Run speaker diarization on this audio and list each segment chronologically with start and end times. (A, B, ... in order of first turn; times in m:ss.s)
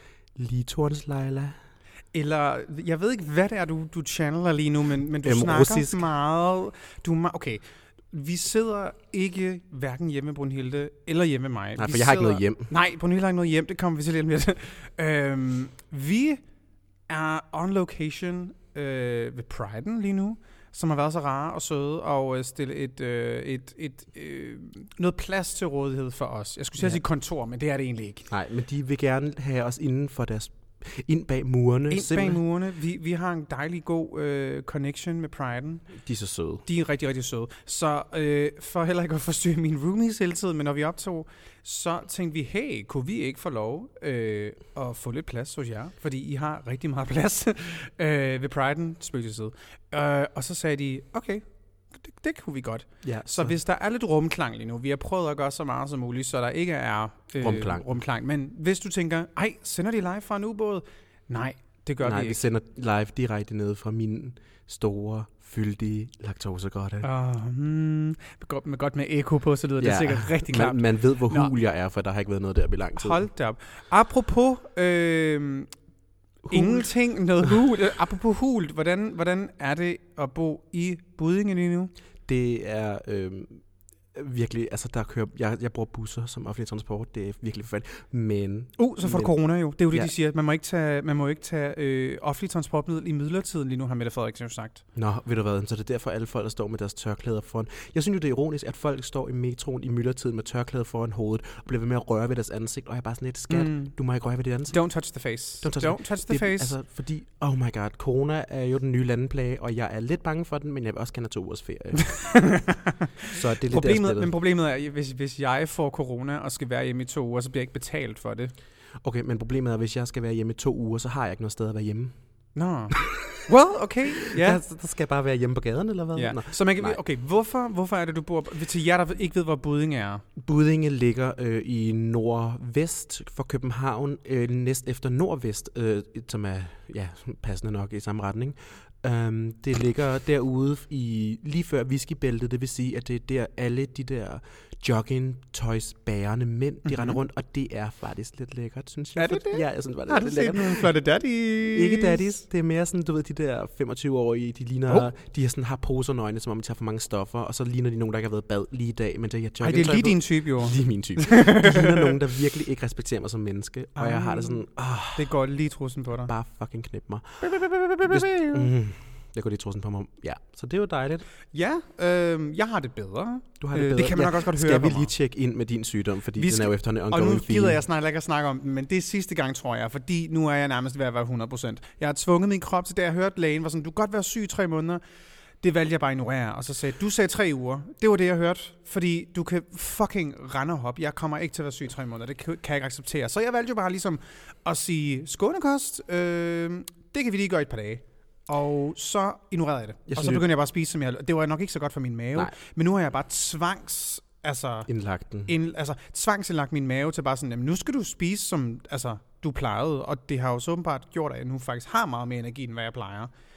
0:00.4-0:01.6 A
0:02.1-0:16.4 B
0:05.2-0:06.0 A
0:11.8-0:12.7 A
0:17.1-0:28.2 B
0:28.3-0:32.4 A
0:31.9-0:35.8 B
0:36.0-0:36.6 A
0:36.6-1:02.4 B
0:53.0-0:53.5 A
0:57.4-0:57.9 A
1:02.0-1:07.1 A
1:07.0-1:11.5 B
1:09.8-1:13.2 A
1:13.0-1:15.7 B
1:16.4-1:16.9 A
1:16.5-1:21.9 B
1:22.3-1:30.1 A
1:28.8-1:34.8 B
1:34.9-1:44.8 A
1:43.5-1:44.0 B
1:44.7-1:46.7 B
1:45.6-1:52.4 A
1:52.0-1:58.5 B
1:53.3-1:54.3 A
1:59.0-2:02.1 A
2:02.5-2:04.6 B
2:04.2-2:07.0 A
2:06.1-2:10.2 B
2:10.4-2:30.9 A
2:26.8-2:27.2 B
2:29.2-2:32.2 B
2:31.7-2:45.3 A
2:39.6-2:42.1 B
2:44.0-2:44.6 B
2:45.1-2:46.3 B
2:46.2-2:51.2 A
2:47.4-2:48.7 B
2:51.5-2:55.1 B
2:53.6-2:57.8 A
2:56.4-3:05.0 B
3:05.6-3:24.9 B
3:20.1-3:20.5 A
3:24.9-3:25.5 A
3:25.4-3:33.3 B